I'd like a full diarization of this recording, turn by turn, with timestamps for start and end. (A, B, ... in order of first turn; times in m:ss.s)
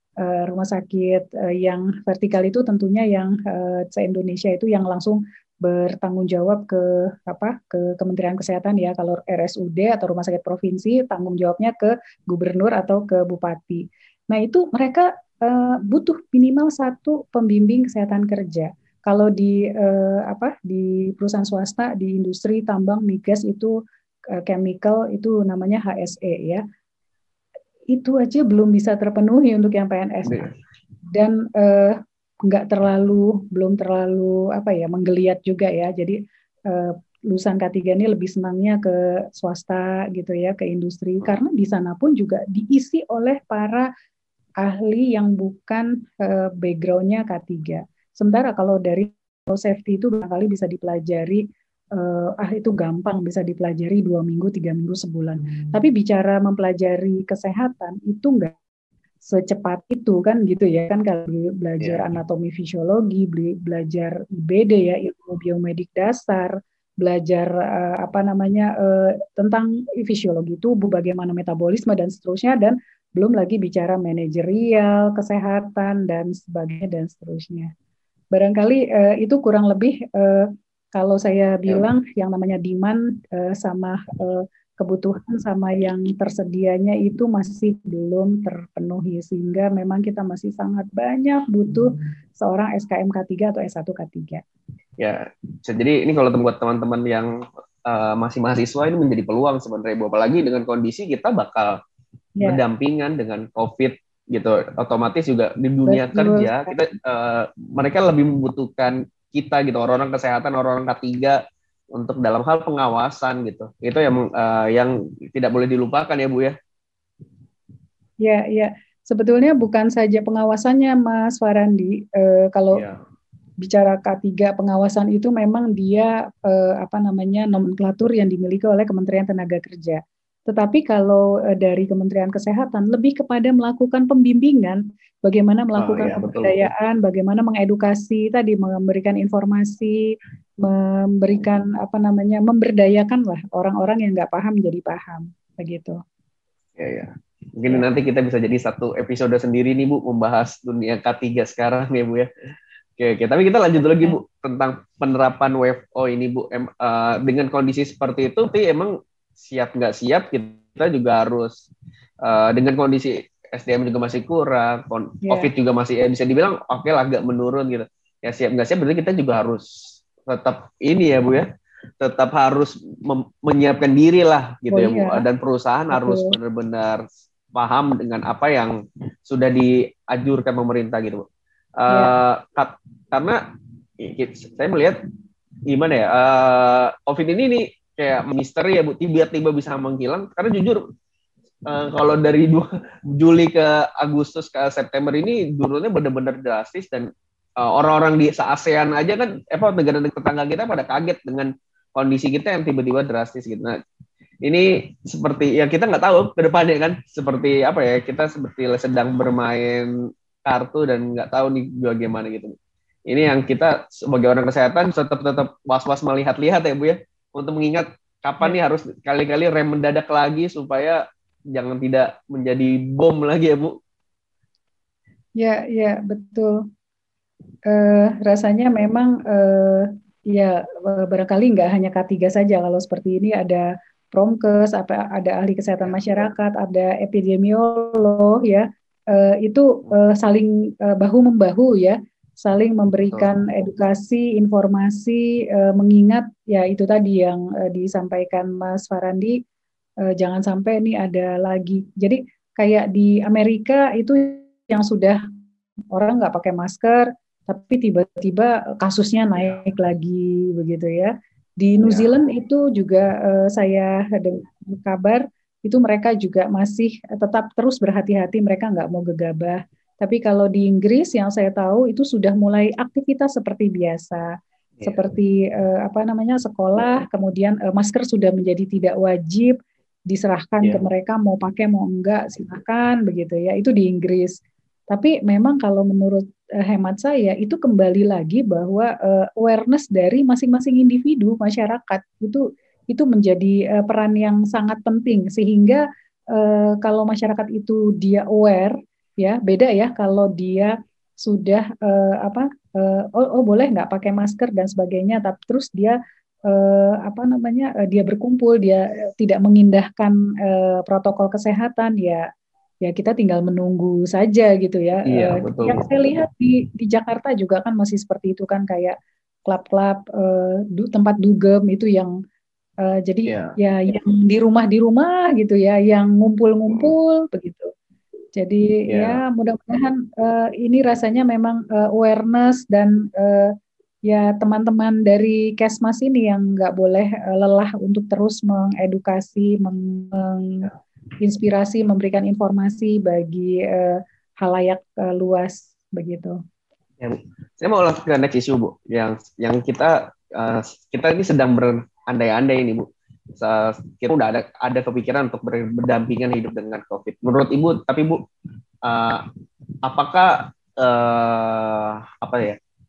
0:00.2-0:23.8 A
0:24.3-0:26.6 A
0:27.9-0:30.4 A
0:30.2-0:30.5 B
0:31.1-0:43.9 A
0:44.6-0:58.5 A
0:59.2-1:17.7 A
1:01.8-1:02.0 B
1:18.3-1:34.4 A
1:35.0-1:41.8 B
1:42.4-1:51.4 B
1:45.9-1:46.8 A
1:51.9-1:56.5 B
1:58.2-2:02.8 A
2:03.6-2:26.0 A
2:15.8-2:16.7 B
2:26.8-2:32.3 B
2:33.0-2:41.6 B
2:33.8-2:34.2 A
2:42.2-2:51.5 B
2:45.2-2:45.5 A
2:52.0-3:01.3 B
2:54.7-2:55.2 A
2:55.9-2:56.4 A
3:01.8-3:03.4 B
3:01.9-3:02.1 A
3:04.0-3:05.0 B
3:05.7-3:10.8 B
3:11.6-3:23.8 B
3:24.4-3:32.5 B
3:33.1-3:43.8 B
3:45.4-3:46.6 A
3:47.7-4:09.4 A
4:03.1-4:03.3 B
4:10.0-4:15.2 A
4:15.9-4:34.2 A
4:34.8-4:39.5 A
4:40.1-4:44.4 A
4:44.9-5:12.2 A
5:12.8-5:22.1 A
5:15.0-5:15.9 B
5:22.8-5:27.7 A
5:23.2-5:23.5 B
5:28.4-5:33.5 A
5:28.9-5:29.2 B
5:34.0-5:46.4 A
5:47.0-5:58.2 B
5:58.8-5:59.3 B
5:59.8-6:02.6 B